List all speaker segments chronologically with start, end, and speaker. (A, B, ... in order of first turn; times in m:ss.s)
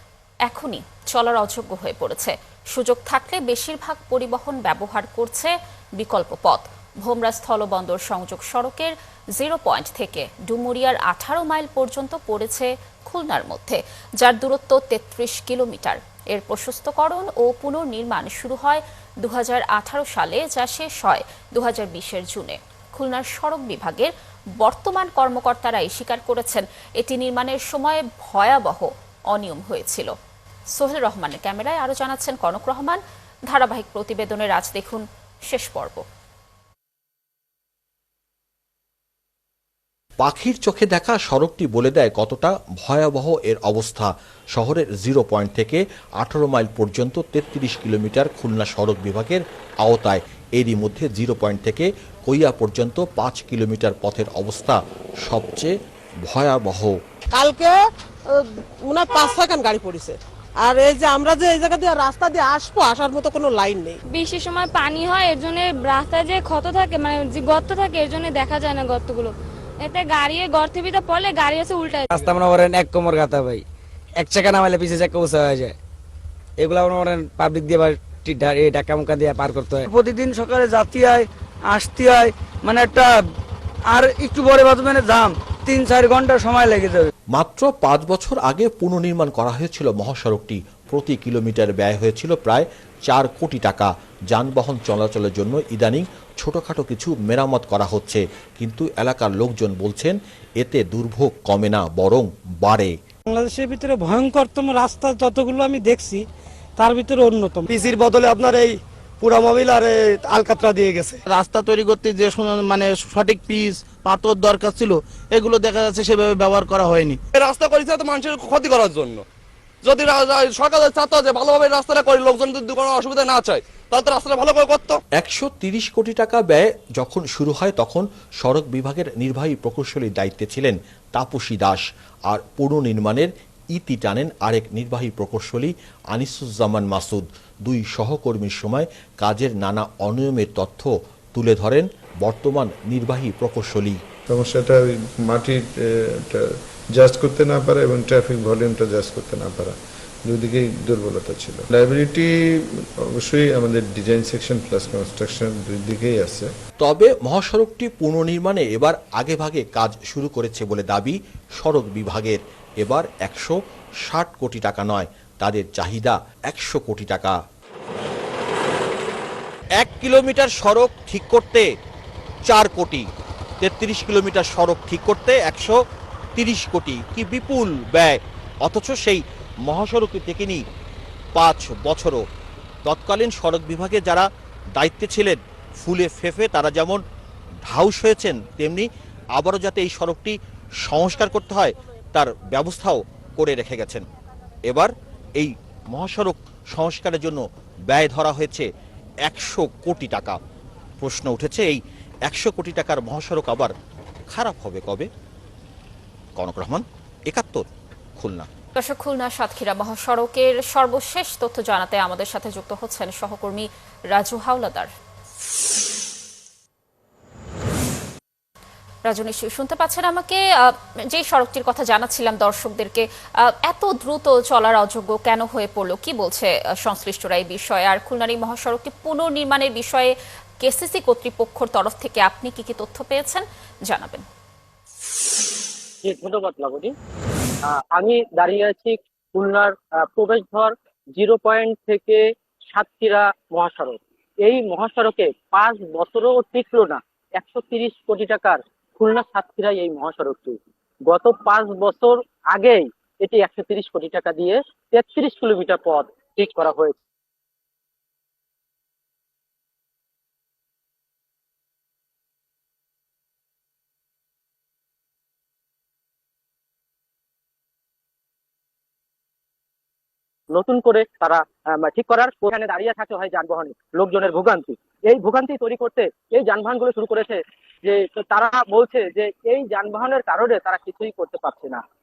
0:00.5-0:30.1 A
0:30.7-0:36.0 A
0:40.2-0:55.7 B
0:56.2-0:57.0 B
0:58.9-1:00.1 C
1:00.7-1:01.6 C
1:03.3-1:03.7 C
1:04.1-1:12.2 D
1:12.4-1:13.5 E
1:14.2-1:15.7 E
1:16.6-1:19.9 E
1:27.3-1:42.9 B
1:43.3-1:46.2 F
1:46.8-1:47.7 F
1:47.7-1:51.2 G
1:51.4-1:57.2 H
1:57.4-1:59.2 I
1:59.8-2:05.0 I
2:05.2-2:24.0 B
2:24.3-2:29.8 J
2:30.3-2:36.5 J
2:36.8-2:47.4 B
2:49.8-2:51.7 B
2:52.4-2:53.1 B
2:53.6-2:55.8 B
2:56.3-3:00.6 B
3:01.3-3:02.2 B
3:02.8-3:07.0 B
3:07.6-3:14.0 B
3:14.7-3:18.7 B
3:19.2-3:20.4 B
3:21.0-3:23.7 B
3:24.3-3:25.1 B
3:26.4-3:27.7 B
3:28.2-3:28.5 B
3:28.8-3:34.9 A
3:39.0-3:54.2 A
3:56.0-3:56.9 K
3:57.7-4:17.0 K
4:30.5-4:41.8 K